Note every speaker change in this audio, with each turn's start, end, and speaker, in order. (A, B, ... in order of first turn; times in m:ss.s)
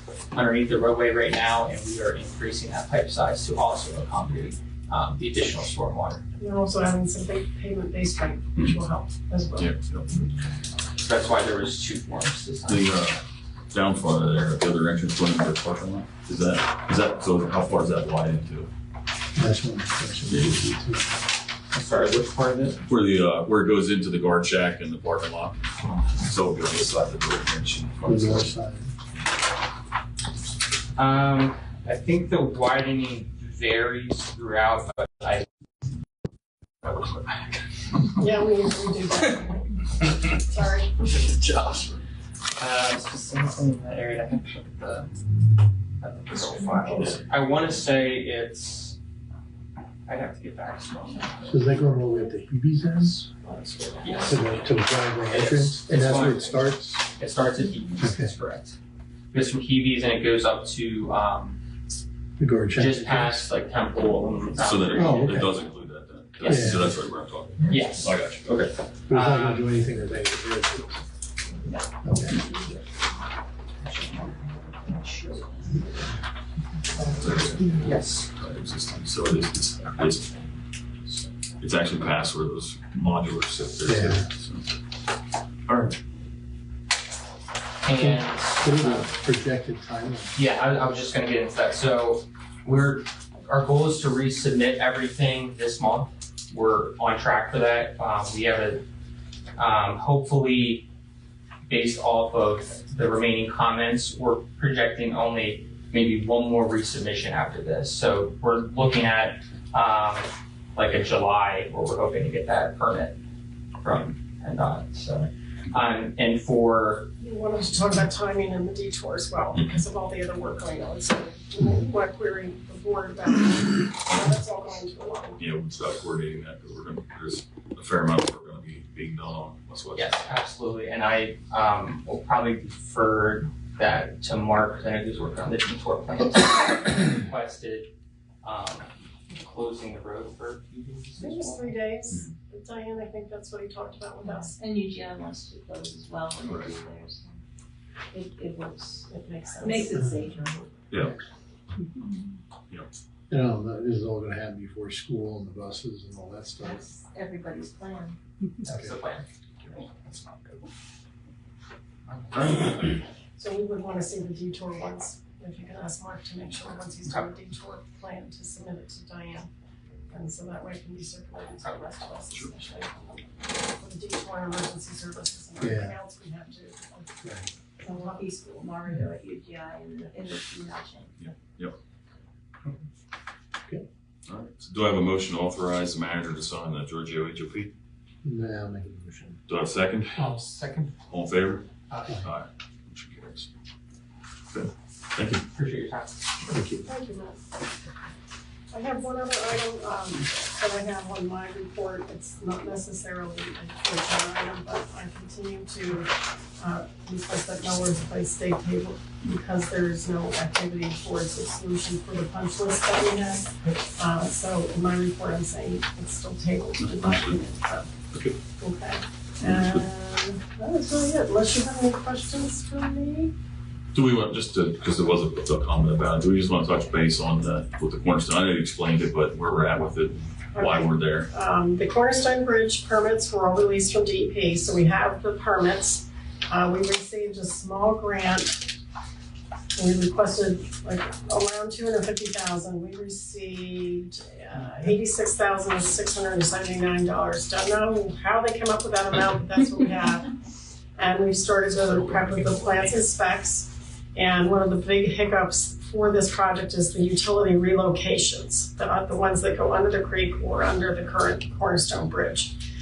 0:00.3-0:06.2 A
0:06.4-0:09.7 B
0:09.6-0:10.1 C
0:11.0-0:13.0 A
0:12.7-0:18.7 C
0:19.4-0:21.1 D
0:21.7-0:22.8 A
0:22.9-0:25.6 C
0:26.1-0:28.5 C
0:28.0-0:28.9 D
0:31.0-0:35.4 A
0:38.2-0:40.9 B
0:41.0-0:42.0 A
0:42.6-0:45.1 A
0:46.0-0:49.0 A
0:50.1-0:51.8 A
0:51.4-0:53.3 D
0:53.5-0:54.2 B
0:54.0-0:58.8 A
0:54.2-0:57.0 D
0:58.0-0:58.3 D
0:59.3-1:01.6 A
1:02.4-1:03.5 D
1:02.7-1:05.5 A
1:04.6-1:08.6 C
1:05.0-1:05.6 D
1:06.4-1:06.9 A
1:06.5-1:06.9 D
1:07.7-1:09.7 A
1:09.1-1:11.0 D
1:12.0-1:12.4 D
1:12.4-1:12.8 A
1:13.8-1:15.9 A
1:17.0-1:20.4 C
1:17.7-1:18.3 A
1:21.6-1:24.8 C
1:23.8-1:24.3 D
1:25.7-1:26.0 C
1:27.8-1:29.2 A
1:28.0-1:30.4 D
1:30.4-1:38.8 A
1:39.6-1:40.9 A
1:41.7-1:53.2 A
1:53.8-1:57.1 A
1:57.2-2:05.4 B
2:04.1-2:04.3 C
2:05.4-2:10.3 C
2:10.0-2:17.9 A
2:18.4-2:21.8 A
2:21.2-2:24.6 B
2:24.2-2:27.4 E
2:26.4-2:26.7 C
2:28.1-2:30.7 E
2:29.1-2:30.1 B
2:30.9-2:31.2 C
2:31.9-2:32.3 E
2:33.3-2:36.8 D
2:36.6-2:38.2 E
2:38.6-2:40.4 A
2:38.7-2:39.0 D
2:42.1-2:42.9 A
2:43.4-2:49.5 B
2:50.1-2:57.3 B
2:55.6-2:56.0 D
2:57.2-2:57.5 D
2:57.8-2:58.3 B
2:57.8-3:01.2 E
3:01.2-3:01.8 C
3:04.3-3:07.7 C
3:08.2-3:09.4 D
3:09.5-3:10.3 C
3:10.2-3:11.0 A
3:11.1-3:13.5 C
3:14.5-3:15.5 C
3:15.5-3:16.2 A
3:16.5-3:16.8 D
3:16.8-3:17.4 B
3:18.7-3:37.9 B
3:36.8-3:37.4 C
3:38.6-3:43.3 B
3:39.4-3:39.8 C
3:43.9-3:51.3 C
3:50.5-3:58.7 B
3:59.8-4:10.4 B
4:11.0-4:22.6 B